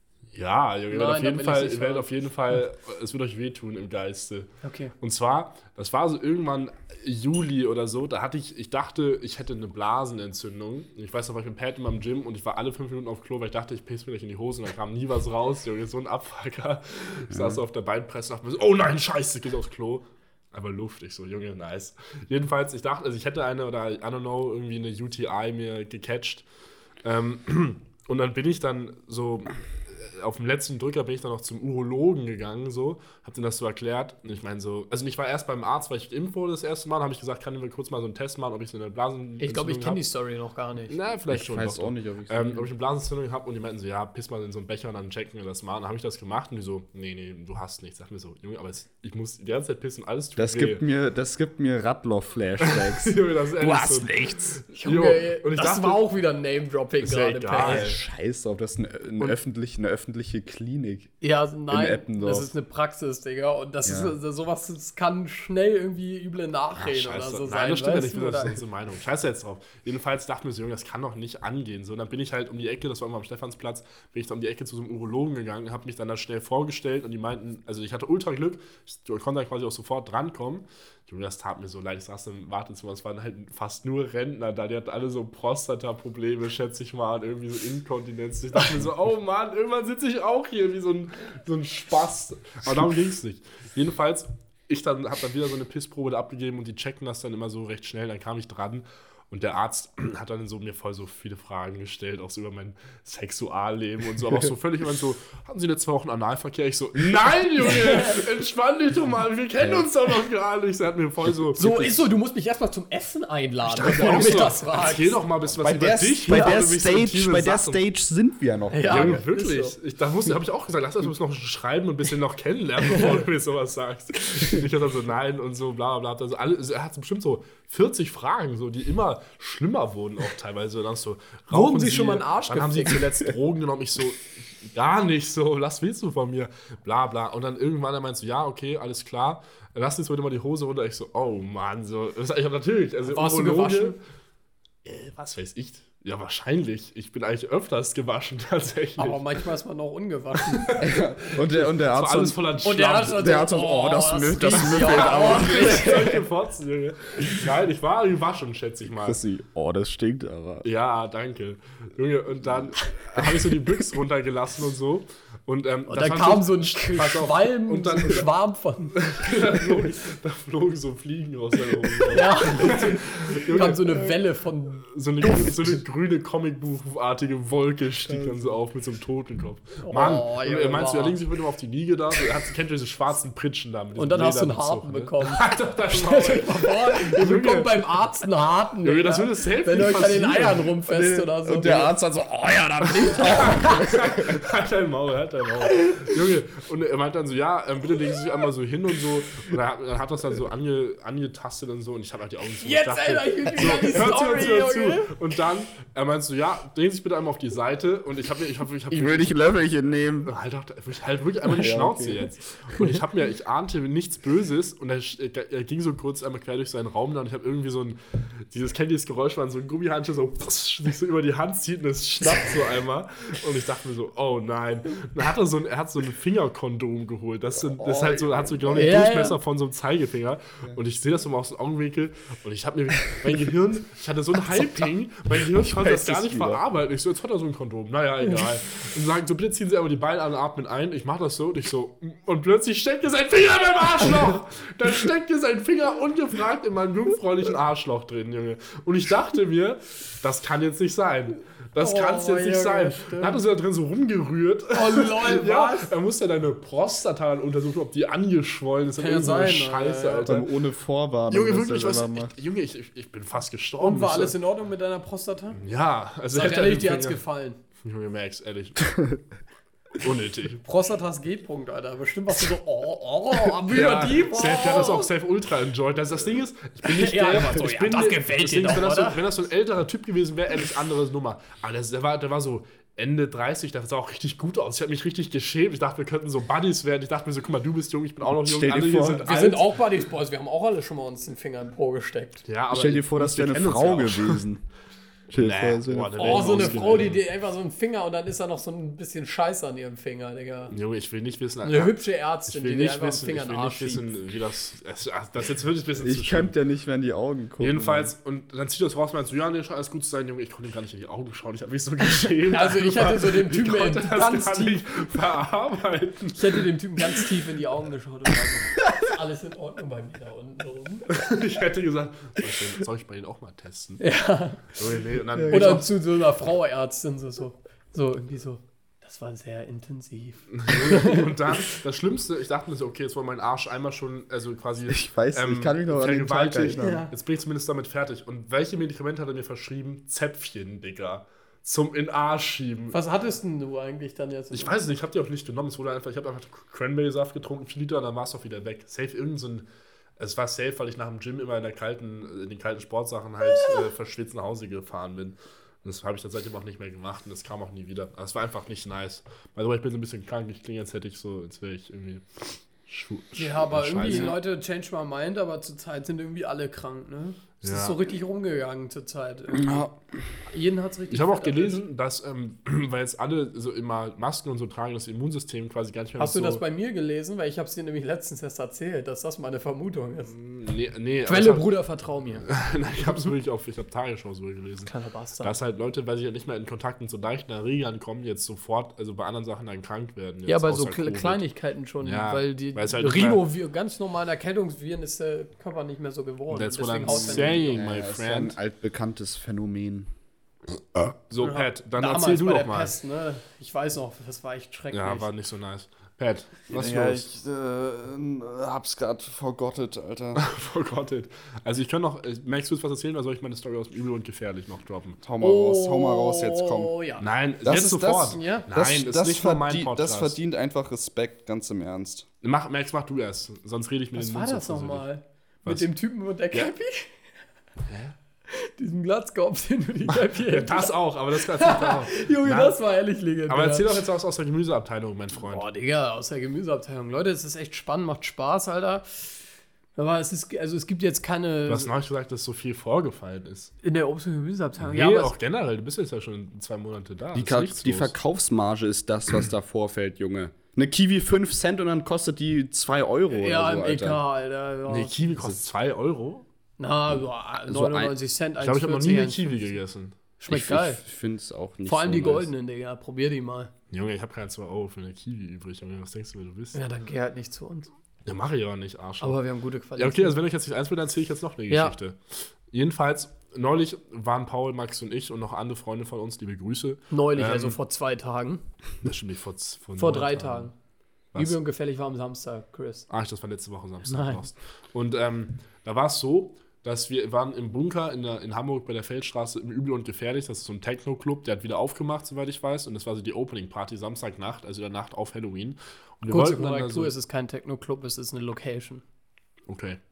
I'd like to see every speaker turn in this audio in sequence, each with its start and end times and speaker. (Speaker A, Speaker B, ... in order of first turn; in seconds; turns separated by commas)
Speaker A: 0.3-4.5, Speaker B: 0.9-2.1, Speaker B: 4.6-4.9, Speaker A: 5.0-26.5, Speaker C: 17.3-17.6, Speaker A: 27.0-40.0, Speaker B: 39.4-41.0, Speaker A: 40.9-50.8, Speaker C: 41.3-42.7, Speaker C: 50.4-54.6, Speaker A: 52.6-56.0, Speaker B: 54.8-57.9, Speaker A: 57.0-58.0, Speaker C: 57.5-61.1, Speaker B: 61.2-68.6, Speaker C: 61.7-62.5, Speaker C: 63.9-64.2, Speaker A: 66.8-112.0, Speaker B: 107.6-108.2, Speaker B: 111.6-115.2, Speaker A: 113.7-117.8, Speaker C: 115.6-119.2, Speaker B: 116.3-116.6, Speaker B: 118.7-119.8, Speaker A: 118.9-144.0, Speaker B: 131.5-133.2, Speaker B: 143.0-144.0, Speaker A: 144.8-149.3, Speaker B: 149.0-150.7, Speaker A: 150.4-153.3, Speaker C: 150.8-152.4, Speaker B: 152.6-156.2, Speaker C: 153.1-156.2, Speaker A: 154.6-159.2, Speaker C: 159.0-160.7, Speaker A: 160.6-168.3, Speaker B: 165.9-169.0, Speaker A: 168.9-174.0, Speaker B: 172.1-175.5, Speaker A: 174.9-187.9, Speaker C: 178.1-178.3, Speaker B: 179.8-181.2, Speaker B: 184.0-191.9, Speaker A: 188.8-190.7, Speaker C: 190.9-194.4, Speaker A: 193.0-209.4, Speaker B: 193.2-193.8, Speaker B: 202.6-205.1, Speaker C: 208.9-210.3, Speaker A: 210.2-218.0, Speaker C: 211.5-212.3, Speaker A: 218.5-260.6, Speaker C: 227.6-229.1, Speaker B: 228.7-229.4, Speaker C: 234.5-234.9, Speaker C: 235.4-236.6, Speaker B: 251.8-253.4, Speaker B: 254.7-255.9, Speaker B: 259.0-260.3, Speaker C: 260.2-262.3, Speaker A: 261.3-264.4, Speaker B: 263.8-265.6, Speaker A: 265.6-267.2, Speaker B: 266.3-267.6, Speaker A: 267.8-268.9, Speaker A: 270.0-270.6, Speaker B: 270.6-275.1, Speaker A: 273.7-289.7, Speaker B: 276.8-279.2, Speaker C: 288.2-289.3, Speaker B: 289.2-292.4, Speaker A: 292.5-294.4, Speaker C: 292.7-294.6, Speaker C: 295.3-297.1, Speaker A: 295.3-297.2, Speaker B: 296.2-300.7, Speaker A: 300.7-306.5, Speaker B: 301.6-304.1, Speaker C: 306.0-308.1, Speaker A: 307.6-317.2, Speaker B: 312.5-314.8, Speaker B: 316.4-321.1, Speaker A: 321.1-324.0, Speaker B: 324.0-324.8, Speaker A: 324.7-325.9, Speaker C: 325.4-325.7, Speaker B: 325.5-331.3, Speaker A: 330.5-343.0, Speaker C: 334.9-337.1, Speaker B: 336.8-337.1, Speaker B: 342.9-344.8, Speaker A: 344.5-349.7, Speaker A: 350.2-364.4, Speaker B: 363.4-369.9, Speaker C: 364.1-364.4, Speaker A: 367.6-368.0, Speaker C: 369.5-369.9, Speaker B: 370.5-371.8, Speaker A: 371.1-376.6, Speaker B: 376.2-380.3, Speaker A: 380.3-381.7, Speaker B: 381.3-382.5, Speaker A: 382.5-391.4, Speaker B: 384.9-385.6, Speaker B: 390.5-397.8, Speaker A: 392.0-393.4, Speaker A: 396.5-398.6, Speaker C: 397.1-400.1, Speaker A: 401.1-402.9, Speaker B: 401.4-405.3, Speaker A: 404.9-407.3, Speaker C: 406.7-410.4, Speaker A: 410.4-415.2, Speaker C: 415.2-416.9, Speaker B: 415.4-417.3, Speaker A: 417.2-420.4, Speaker C: 417.6-422.3, Speaker B: 418.3-418.7, Speaker A: 422.4-425.1, Speaker B: 424.1-427.1, Speaker A: 427.9-428.1, Speaker B: 428.5-434.0, Speaker A: 430.1-432.8, Speaker A: 433.5-435.6, Speaker B: 435.4-439.4, Speaker B: 440.0-441.9, Speaker A: 441.7-443.7, Speaker B: 443.8-445.3, Speaker A: 444.9-448.1, Speaker C: 447.3-454.2, Speaker B: 453.3-455.1, Speaker A: 454.9-456.4, Speaker B: 456.8-459.7, Speaker C: 457.7-458.1, Speaker A: 458.6-460.2, Speaker B: 460.4-461.0, Speaker C: 460.5-462.5, Speaker B: 461.9-463.7, Speaker A: 463.9-466.8, Speaker B: 466.7-467.9, Speaker A: 468.3-469.4, Speaker B: 469.2-470.4, Speaker A: 470.0-477.8, Speaker B: 471.7-472.0, Speaker B: 477.1-478.6, Speaker A: 479.0-480.7, Speaker B: 480.0-480.7, Speaker B: 481.4-483.1, Speaker A: 483.1-497.1, Speaker B: 484.1-484.4, Speaker B: 496.2-499.0, Speaker A: 499.7-500.0